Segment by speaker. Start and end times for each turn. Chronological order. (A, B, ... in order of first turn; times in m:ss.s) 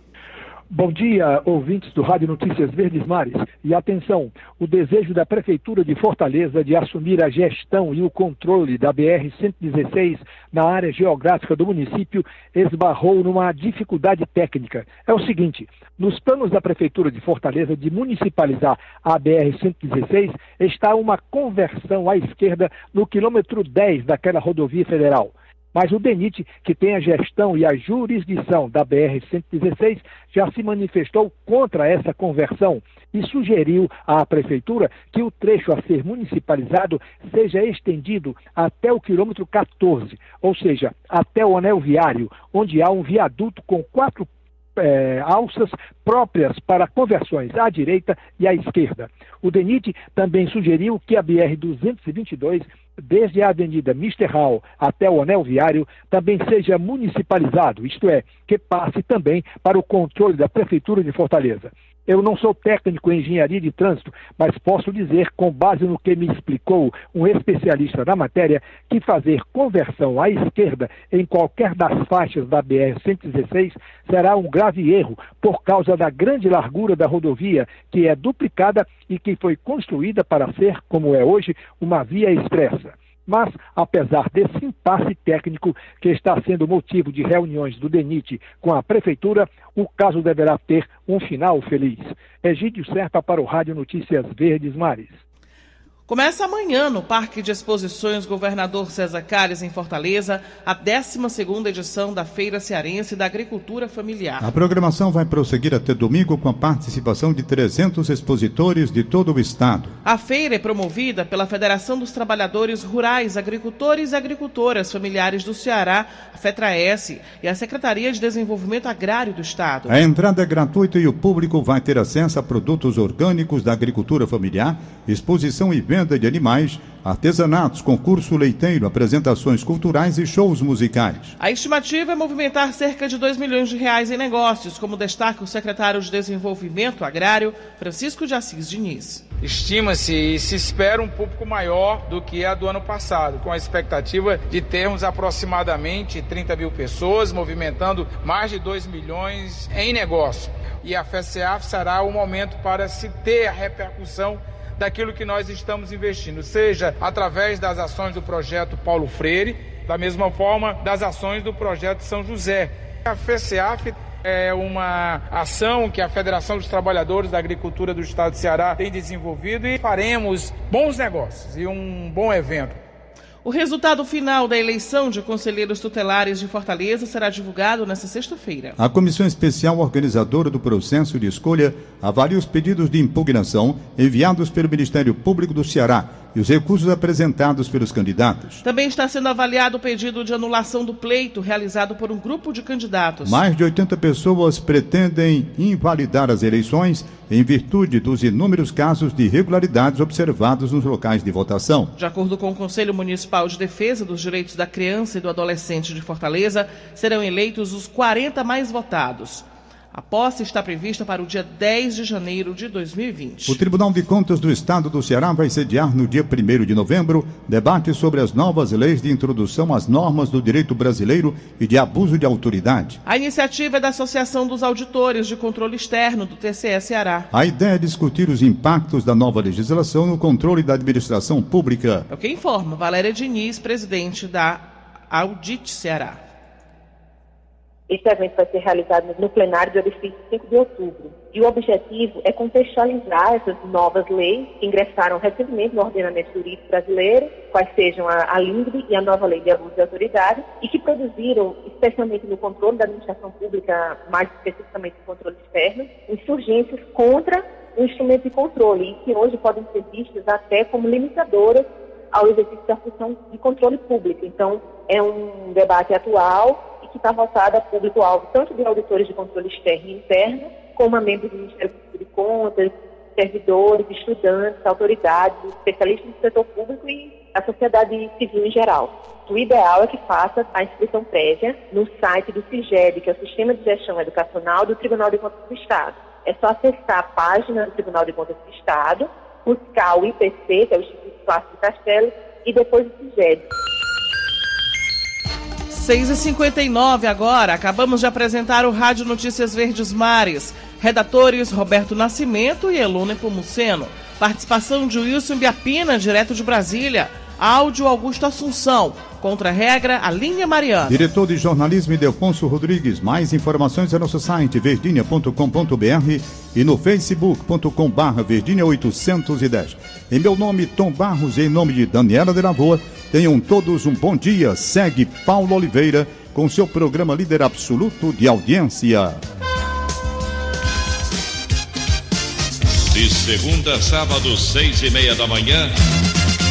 0:00.7-1:35.2 A
1:36.1-1:44.5 B
1:44.4-1:50.0 C
1:50.0-2:00.0 B
1:59.9-2:11.3 C
2:11.4-2:19.2 B
2:19.4-2:52.8 D
2:53.4-2:58.8 B
2:58.8-3:08.6 C
3:08.6-3:13.4 B
3:13.2-3:21.9 C
3:22.0-3:33.6 B
3:33.5-3:43.0 C
3:43.1-3:47.3 B
3:47.3-3:52.1 C
3:52.1-3:56.2 B
3:57.9-4:53.4 E
4:55.7-5:11.1 B
5:10.9-5:29.2 C
5:32.9-5:35.7 F